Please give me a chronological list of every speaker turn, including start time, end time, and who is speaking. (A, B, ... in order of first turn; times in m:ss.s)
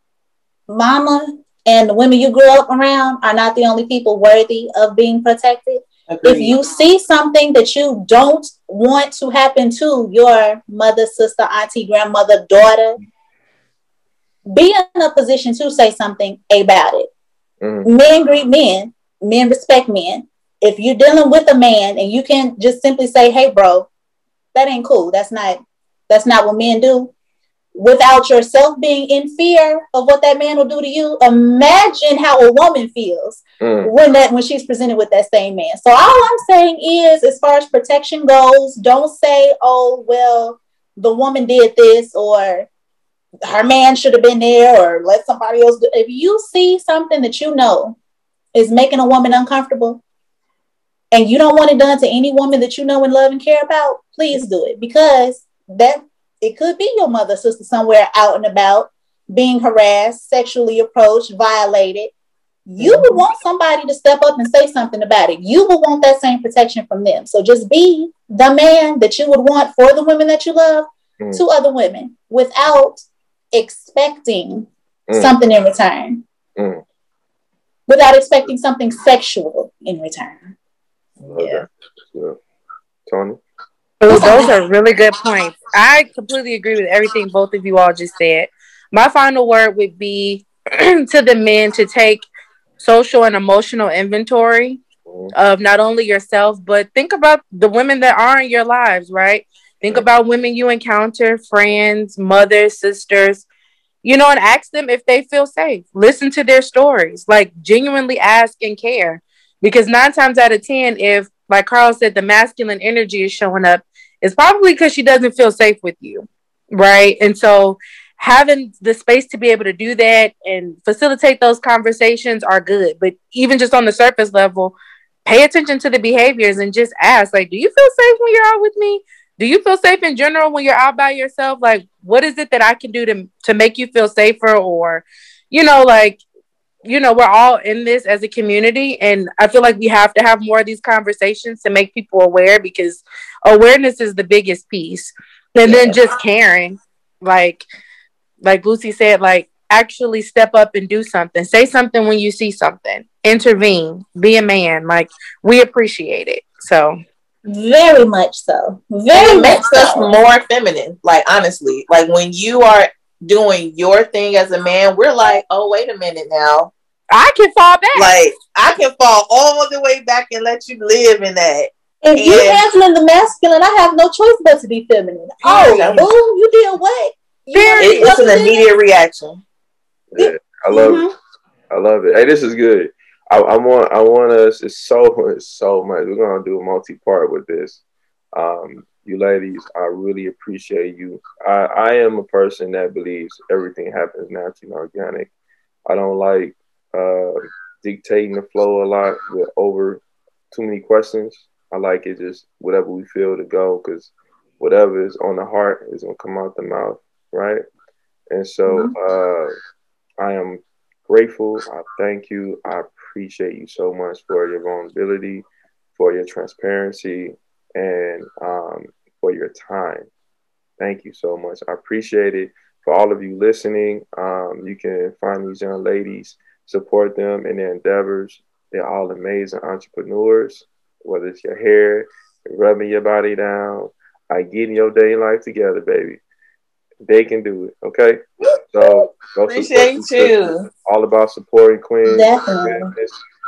0:00.7-0:13.0 A
0:06.1-0:06.5 B
0:14.5-0:17.1 A
0:17.6-0:17.9 C
0:17.8-0:23.9 A
0:24.5-0:27.1 A
0:27.7-0:42.7 A
0:33.6-0:33.9 C
0:43.5-0:48.0 A
0:48.5-0:50.0 A
0:51.1-1:02.1 A
1:02.7-1:16.2 A
1:15.1-1:15.3 C
1:16.6-1:16.8 C
1:17.9-1:20.5 A
1:21.2-1:22.4 C
1:21.4-1:21.6 A
1:23.1-1:23.4 C
1:24.0-1:32.2 D
1:24.1-1:24.5 A
1:32.8-1:34.8 D
1:35.1-1:35.3 C
1:35.3-1:43.4 D
1:44.0-2:16.2 D
2:16.8-2:27.6 D
2:25.6-2:25.9 B
2:28.4-2:37.0 D
2:37.4-2:40.1 A
2:39.1-2:46.7 B
2:47.1-2:48.2 D
2:47.9-2:52.6 B
2:52.0-2:58.6 A
2:55.4-2:56.1 B
2:57.5-2:58.2 D
2:57.8-2:59.4 B
3:00.1-3:01.1 C
3:00.2-3:01.1 A
3:01.7-3:07.8 C
3:08.4-3:15.3 C
3:15.9-3:27.6 C
3:28.3-3:29.5 C
3:28.7-3:28.9 A
3:30.2-3:35.4 C
3:36.0-3:40.1 C
3:40.8-3:56.2 C
3:57.0-4:03.1 C
3:59.5-4:00.7 B
4:02.0-4:02.9 A